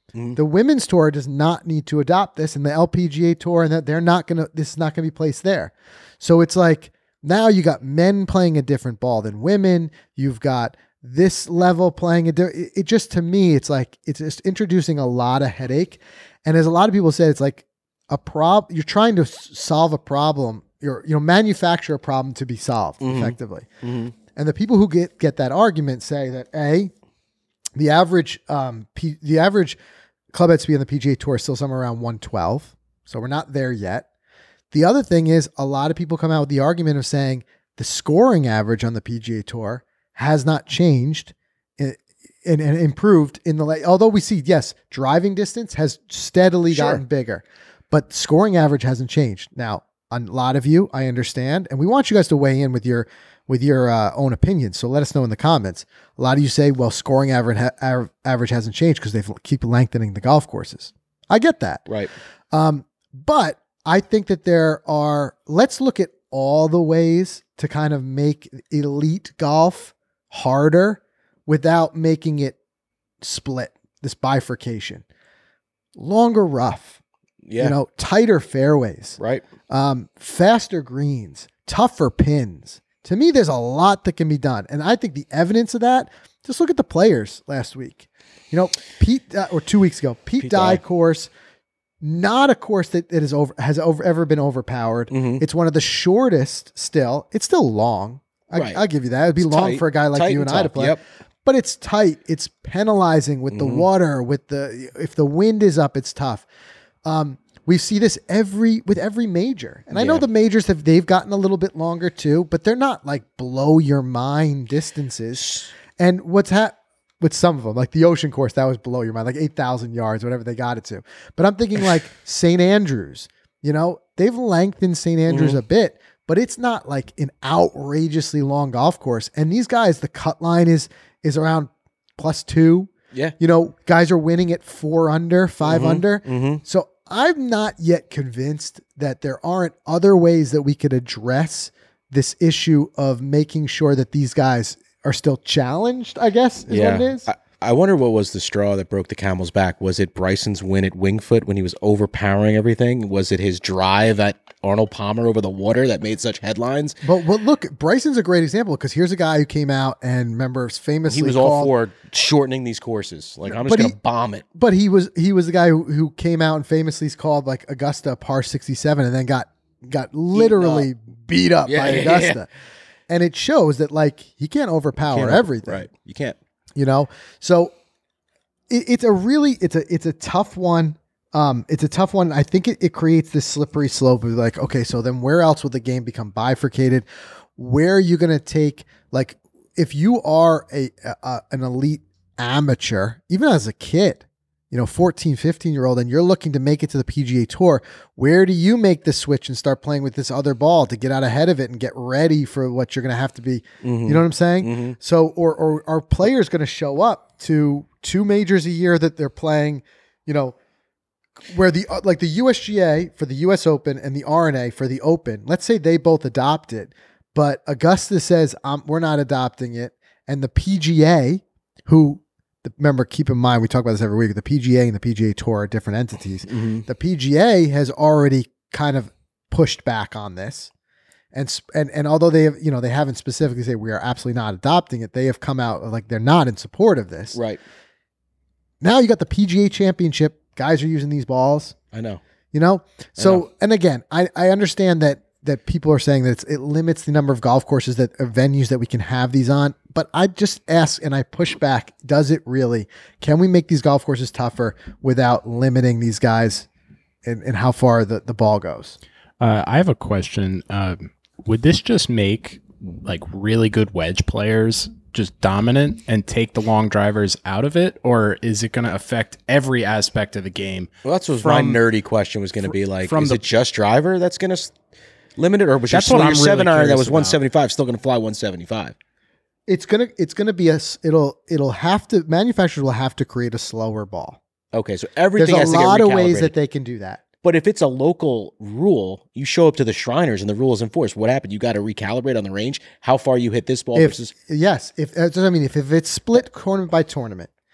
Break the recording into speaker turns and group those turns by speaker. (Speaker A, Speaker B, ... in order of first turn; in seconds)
Speaker A: 0.3-23.7, 24.3-26.9, 27.8-29.8, 30.3-34.1, 34.7-61.9, 62.5-72.6, 73.2-75.0, 76.0-77.0, 77.6-79.2, 79.7-91.3, 92.0-106.5, 107.1-147.3, 157.0-161.7, 163.5-164.0, 164.5-172.5, 173.1-175.9, 176.8-177.7, 178.7-187.1, 187.6-210.6, 211.5-230.7, 231.3-237.4, 238.8-241.8, 242.5-256.7, 257.2-259.0, 279.7-284.4, 285.4-287.2, 293.9-297.5
Speaker B: 23.0-24.1, 46.7-47.0, 77.5-77.8, 79.2-79.5, 90.4-90.8, 95.1-95.4, 98.5-98.8, 99.4-101.0, 103.5-103.9, 109.9-110.2, 125.3-125.6, 135.7-136.6, 146.7-157.0, 161.1-164.4, 170.3-170.9, 171.7-172.4, 175.1-176.4, 203.8-205.0, 226.5-226.8, 237.3-237.6, 241.9-242.2, 243.2-243.4, 271.1-274.8, 275.4-278.9, 284.7-286.5, 287.4-294.3
Speaker C: 259.4-271.8, 272.6-273.4, 275.9-277.4